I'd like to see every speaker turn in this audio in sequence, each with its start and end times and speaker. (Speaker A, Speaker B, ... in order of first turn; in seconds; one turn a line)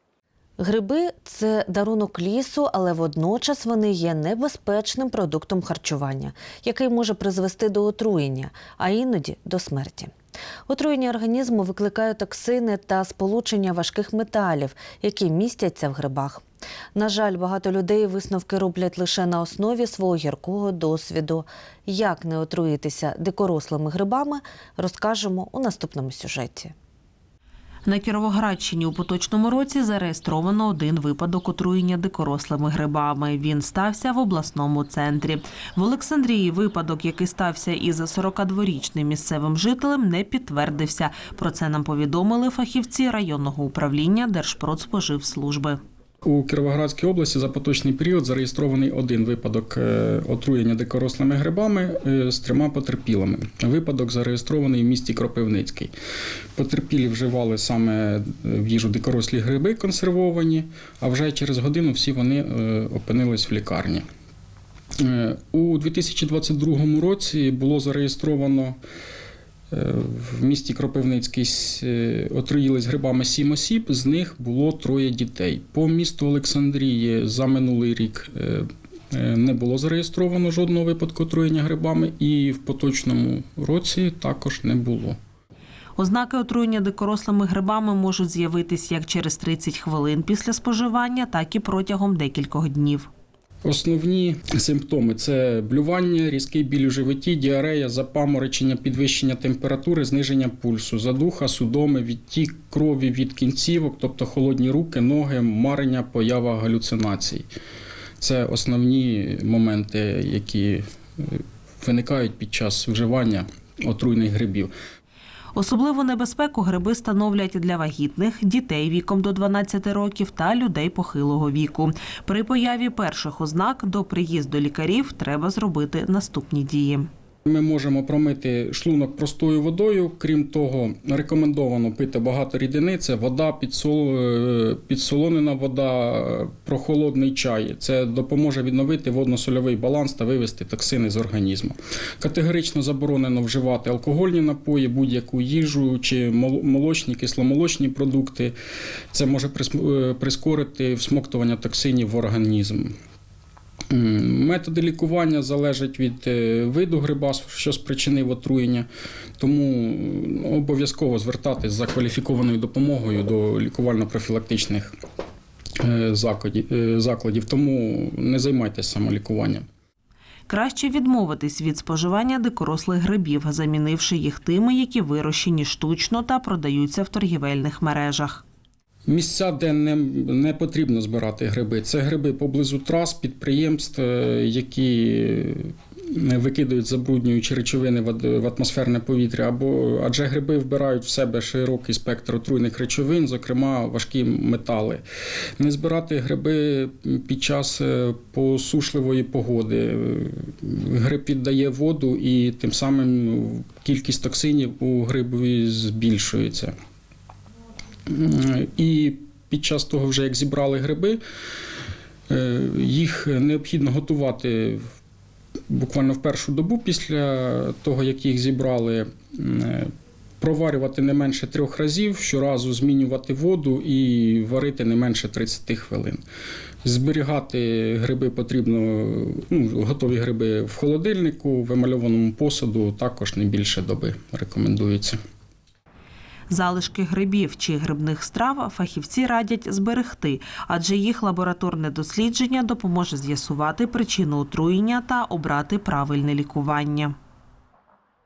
Speaker A: 0.6-10.1
Speaker A: 10.7-26.7
Speaker B: 27.9-45.8
Speaker C: 46.2-55.9
Speaker C: 56.5-64.0
Speaker C: 65.0-68.8
Speaker C: 69.7-85.2
Speaker B: 86.0-93.1
Speaker C: 93.6-107.5
Speaker C: 108.2-114.7
Speaker B: 115.5-127.1
Speaker C: 127.5-148.5
Speaker C: 149.1-152.9
Speaker C: 153.9-158.8
Speaker C: 159.4-164.9
Speaker C: 165.8-169.7
Speaker B: 170.5-178.4
Speaker C: 179.1-195.0
Speaker C: 195.6-206.7
Speaker C: 208.1-211.2
Speaker C: 212.3-214.8
Speaker C: 215.7-219.9
Speaker C: 220.4-226.2
Speaker C: 226.8-235.2
Speaker B: 236.5-247.1